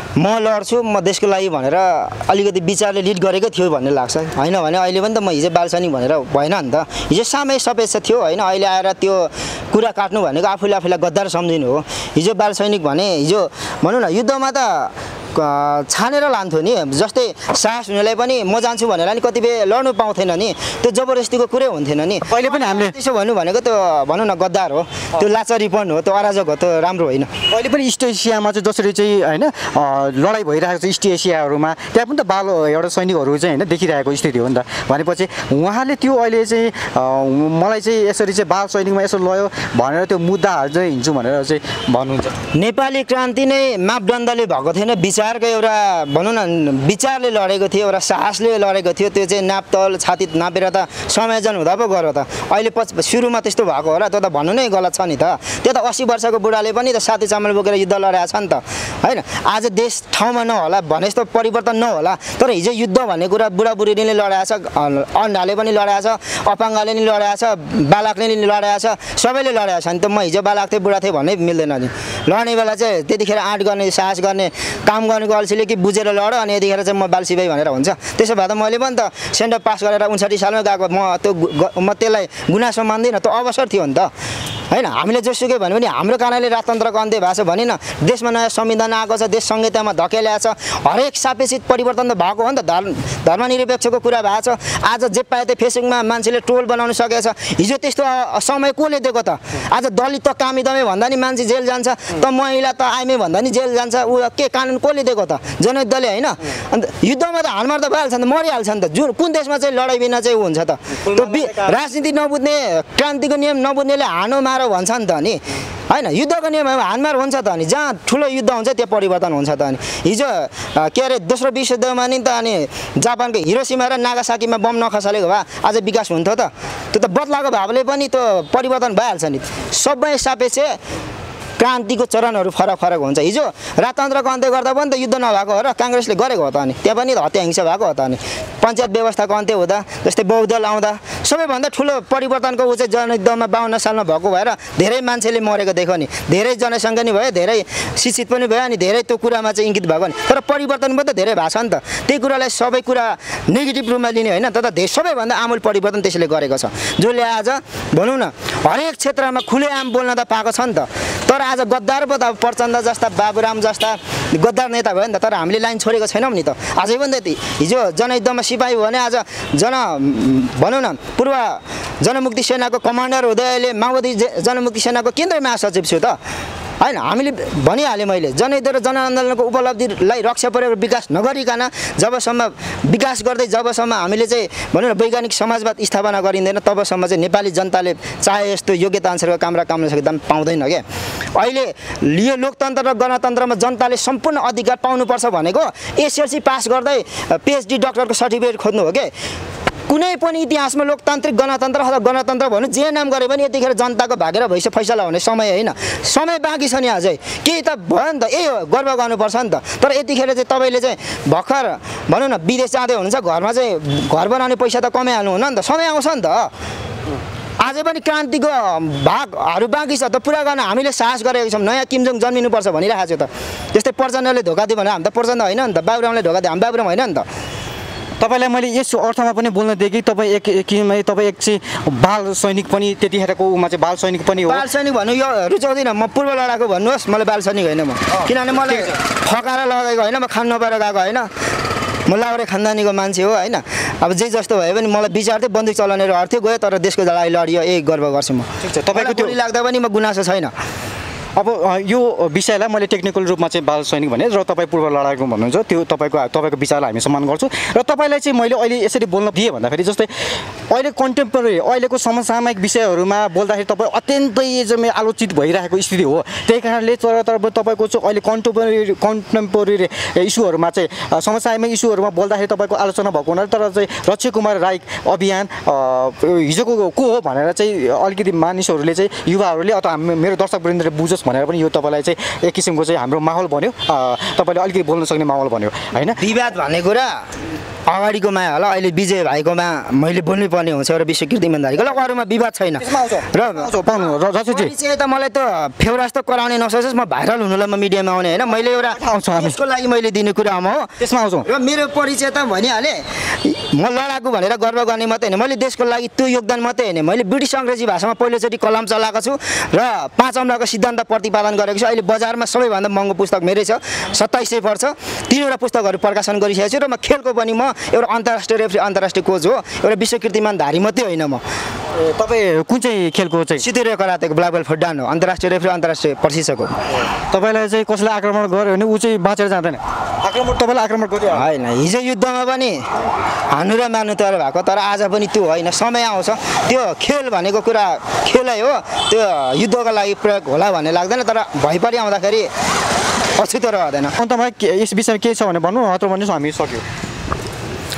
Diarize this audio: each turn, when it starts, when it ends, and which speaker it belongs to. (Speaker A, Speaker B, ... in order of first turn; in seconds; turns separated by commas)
Speaker A: 0.1-27.3, Speaker B: 22.3-22.9, Speaker B: 27.5-42.3, Speaker A: 42.5-84.1, Speaker A: 84.7-130.8, Speaker B: 111.0-111.8, Speaker A: 131.6-176.2, Speaker A: 176.8-190.8, Speaker A: 191.3-199.1, Speaker A: 199.9-216.5, Speaker A: 217.6-227.2, Speaker B: 228.2-234.6, Speaker A: 234.4-241.3, Speaker A: 242.1-250.5, Speaker B: 248.6-249.3, Speaker B: 251.3-260.1, Speaker B: 260.7-286.2, Speaker A: 286.2-287.2, Speaker A: 287.9-300.9, Speaker B: 292.8-294.7, Speaker B: 298.8-299.6, Speaker B: 301.0-301.5, Speaker A: 301.4-321.4, Speaker B: 321.9-323.6, Speaker A: 323.6-326.8, Speaker B: 327.3-331.4, Speaker A: 331.3-332.8, Speaker A: 333.5-342.5, Speaker A: 343.4-344.1, Speaker B: 344.2-346.8